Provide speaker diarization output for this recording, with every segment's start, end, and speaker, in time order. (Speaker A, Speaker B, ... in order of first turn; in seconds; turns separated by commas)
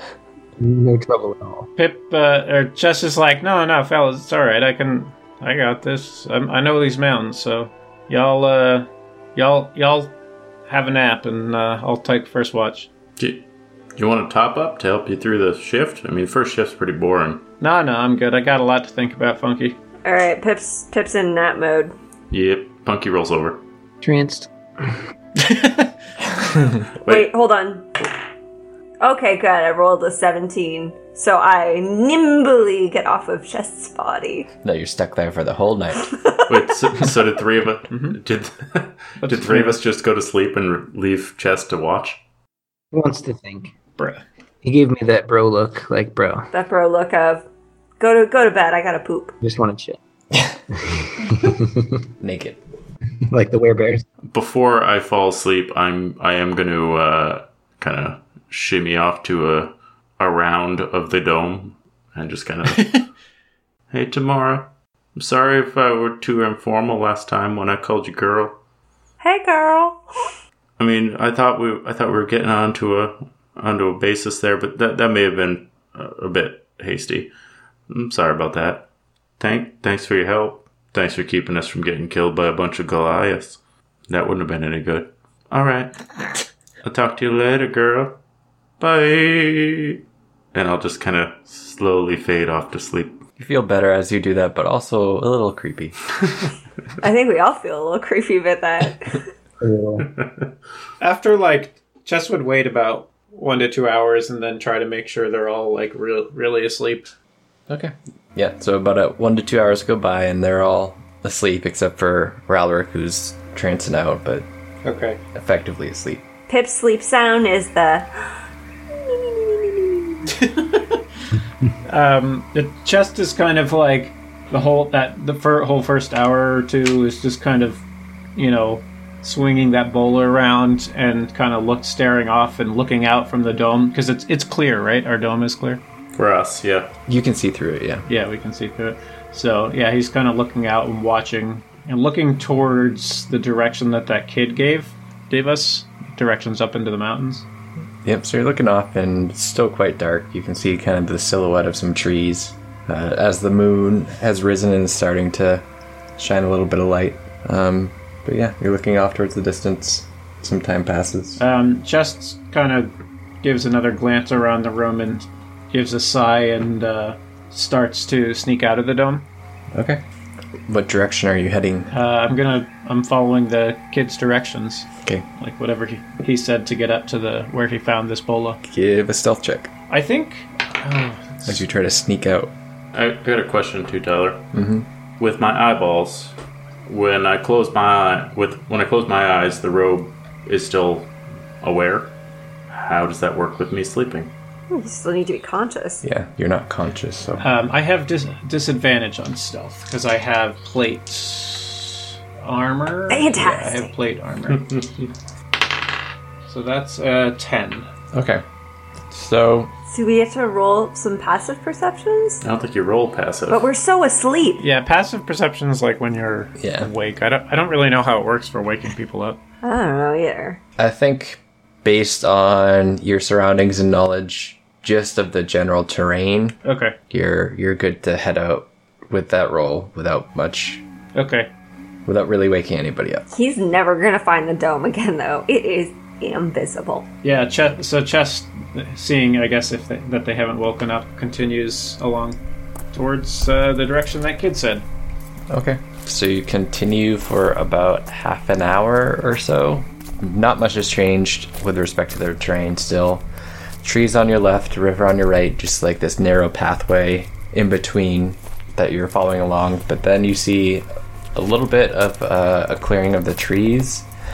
Speaker A: 0.6-1.7, Speaker B: 1.8-10.1, Speaker B: 10.7-12.9, Speaker C: 13.2-13.4, Speaker C: 14.0-17.4, Speaker B: 17.6-19.8, Speaker D: 20.0-21.9, Speaker C: 22.3-23.6, Speaker A: 24.0-24.9, Speaker B: 25.4-25.9, Speaker C: 27.0-27.3, Speaker D: 27.1-27.9, Speaker D: 29.0-34.5, Speaker E: 34.6-36.1, Speaker D: 36.1-37.0, Speaker C: 36.5-42.2, Speaker B: 37.9-38.2, Speaker B: 39.2-39.8, Speaker A: 42.9-43.7, Speaker A: 44.6-46.5, Speaker D: 46.5-47.5, Speaker D: 48.0-49.4, Speaker A: 49.4-50.0, Speaker A: 50.9-51.8, Speaker E: 52.2-52.6, Speaker A: 53.3-54.0, Speaker C: 54.3-63.0, Speaker C: 63.9-68.6, Speaker D: 69.2-70.3, Speaker C: 70.8-77.3, Speaker C: 77.9-78.9, Speaker C: 79.4-86.0, Speaker C: 86.8-88.2, Speaker C: 88.8-90.0, Speaker C: 90.5-93.2, Speaker E: 93.4-96.0, Speaker D: 97.0-99.2, Speaker A: 99.6-100.1, Speaker C: 100.2-100.5, Speaker B: 101.0-107.1, Speaker E: 107.7-114.5, Speaker B: 114.8-115.2, Speaker E: 115.3-116.2, Speaker D: 116.5-118.1, Speaker D: 119.0-120.3, Speaker B: 120.3-121.0, Speaker B: 121.8-127.8, Speaker B: 128.4-135.8, Speaker C: 136.1-136.9, Speaker E: 137.1-138.1, Speaker B: 138.1-147.5, Speaker E: 148.0-155.6, Speaker E: 156.2-161.4, Speaker B: 161.4-169.3, Speaker E: 169.7-170.0, Speaker E: 170.7-171.9, Speaker B: 171.9-178.6, Speaker E: 178.6-179.7, Speaker B: 179.9-181.6, Speaker E: 181.4-182.5, Speaker C: 182.9-184.4, Speaker E: 184.5-184.9, Speaker C: 185.2-192.1, Speaker C: 192.7-194.3, Speaker D: 194.7-196.0, Speaker E: 196.0-197.5, Speaker B: 197.4-204.8, Speaker D: 203.1-203.9, Speaker B: 206.5-207.9, Speaker E: 208.1-208.4, Speaker E: 209.1-209.7, Speaker D: 209.9-212.4, Speaker C: 212.4-213.7, Speaker D: 213.5-214.6, Speaker B: 214.6-219.4, Speaker E: 216.6-216.9, Speaker D: 219.6-220.6, Speaker E: 220.8-226.6, Speaker B: 226.6-227.0, Speaker E: 227.1-230.8, Speaker B: 231.2-231.5, Speaker E: 232.1-233.2, Speaker D: 233.3-237.1, Speaker B: 237.2-242.4, Speaker B: 242.9-244.8, Speaker E: 245.5-253.3, Speaker E: 253.8-264.1